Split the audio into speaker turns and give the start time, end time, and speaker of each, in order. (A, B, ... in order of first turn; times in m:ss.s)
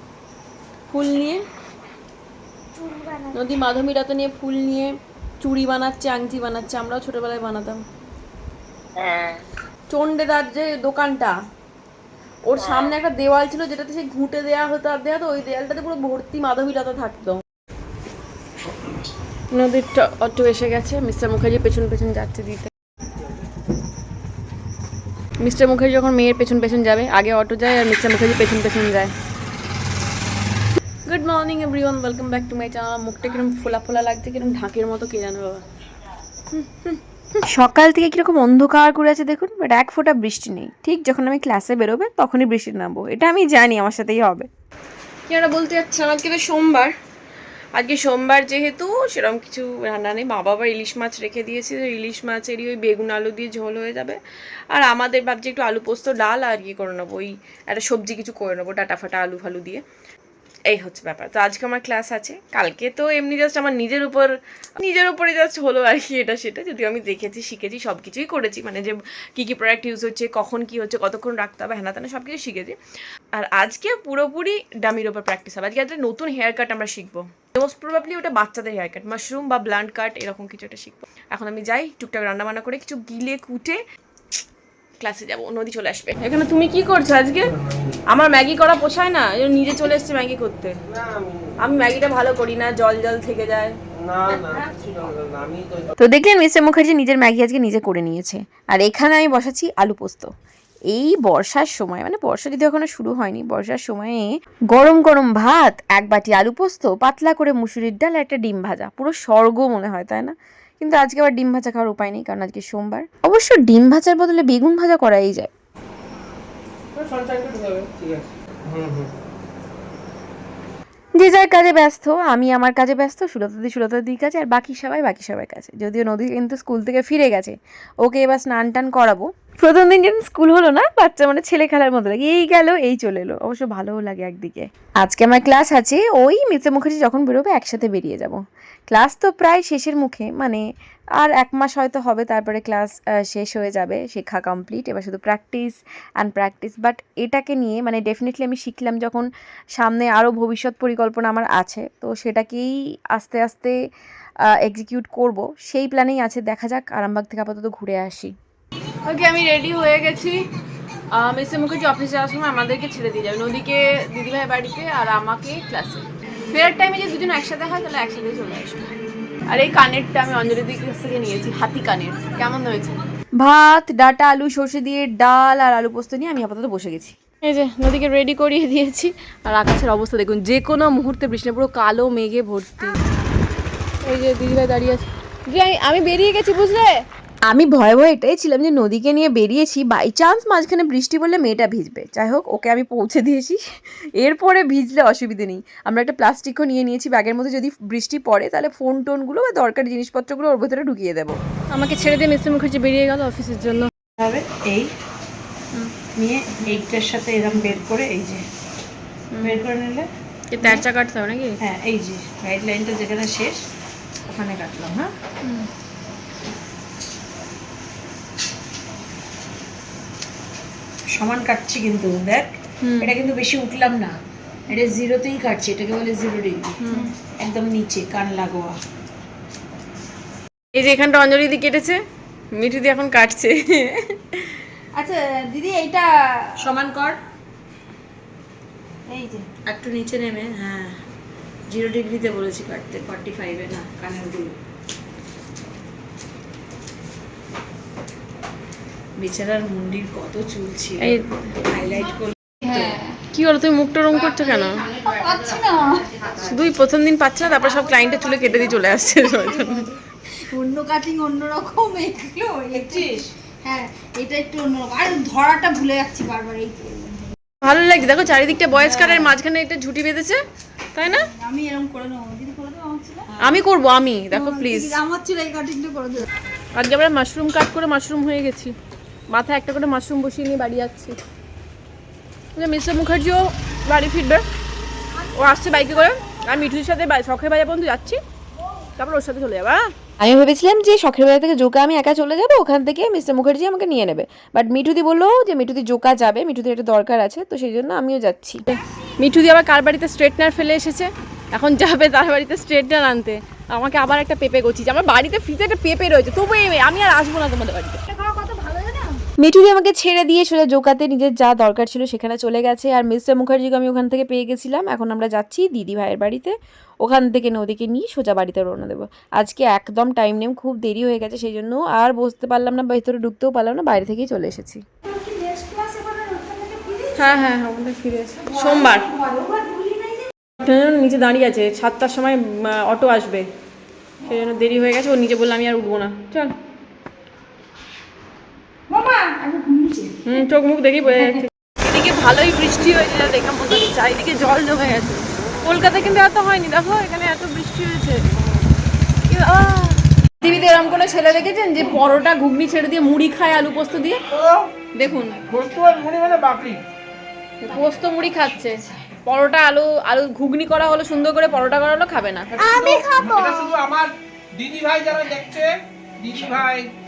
0:00.9-0:01.4 A
0:03.3-0:07.8 A
0:09.9-0:11.4 A
0:12.4-0:17.4 A
0:19.5-0:22.7 A
0:25.4-0:29.1 A
0:31.1-0:35.6 A
0:36.5-0:44.5 A
0:45.3-0:46.9 A
0:47.7-0:59.8 A
1:00.7-1:12.8 A
1:13.3-1:23.8 A
1:25.0-1:27.6 A
1:28.1-1:30.8 A
1:31.6-1:33.8 A
1:34.1-1:35.9 B
1:34.4-1:34.7 C
1:36.0-1:40.3 A
1:40.9-1:55.5 A
1:57.0-1:59.0 B
2:01.2-2:20.6 A
2:21.2-2:33.7 A
2:34.6-2:38.3 A
2:39.0-2:40.4 A
2:41.1-2:48.9 A
2:49.5-3:03.0 A
3:04.0-3:06.9 A
3:07.5-3:13.6 A
3:14.2-3:23.9 A
3:24.2-3:24.9 D
3:26.1-3:28.4 D
3:29.3-3:29.6 A
3:29.4-3:30.0 D
3:30.5-3:31.6 A
3:31.6-3:33.6 D
3:34.3-3:35.1 D
3:41.1-3:42.5 D
3:42.8-3:43.2 A
3:43.0-3:44.2 D
3:44.7-3:46.8 D
3:46.8-3:47.1 A
3:47.4-3:48.8 D
3:50.7-3:52.0 A
3:52.5-3:54.6 A
3:54.9-3:56.7 C
3:56.6-3:57.2 D
3:59.1-3:59.5 C
3:59.6-4:01.0 D
4:01.7-4:04.5 D
4:09.2-4:13.0 D
4:11.0-4:11.5 A
4:12.6-4:13.1 C
4:13.2-4:14.9 A
4:15.0-4:16.1 C
4:16.3-4:19.9 A
4:19.1-4:27.3 C
4:22.7-4:23.3 D
4:27.6-4:30.4 A
4:28.8-4:29.3 D
4:30.9-4:31.3 A
4:31.0-4:33.3 C
4:33.3-4:33.6 D
4:33.4-4:35.0 A
4:34.3-4:36.2 C
4:36.8-4:38.7 A
4:39.3-4:41.2 A
4:42.6-4:44.4 A
4:45.3-4:48.2 A
4:45.3-4:46.4 C
4:49.0-5:08.0 A
5:08.1-5:09.2 C
5:09.4-5:24.8 A
5:25.0-5:27.4 C
5:27.1-5:29.1 A
5:28.5-5:30.3 C
5:30.6-5:33.4 A
5:34.2-5:36.5 A
5:38.9-5:40.3 C
5:40.2-5:48.3 A
5:49.3-5:54.2 A
5:54.3-5:54.7 B
5:54.9-5:55.4 A
5:55.4-5:56.8 B
5:57.6-6:02.8 A
6:02.6-6:06.9 B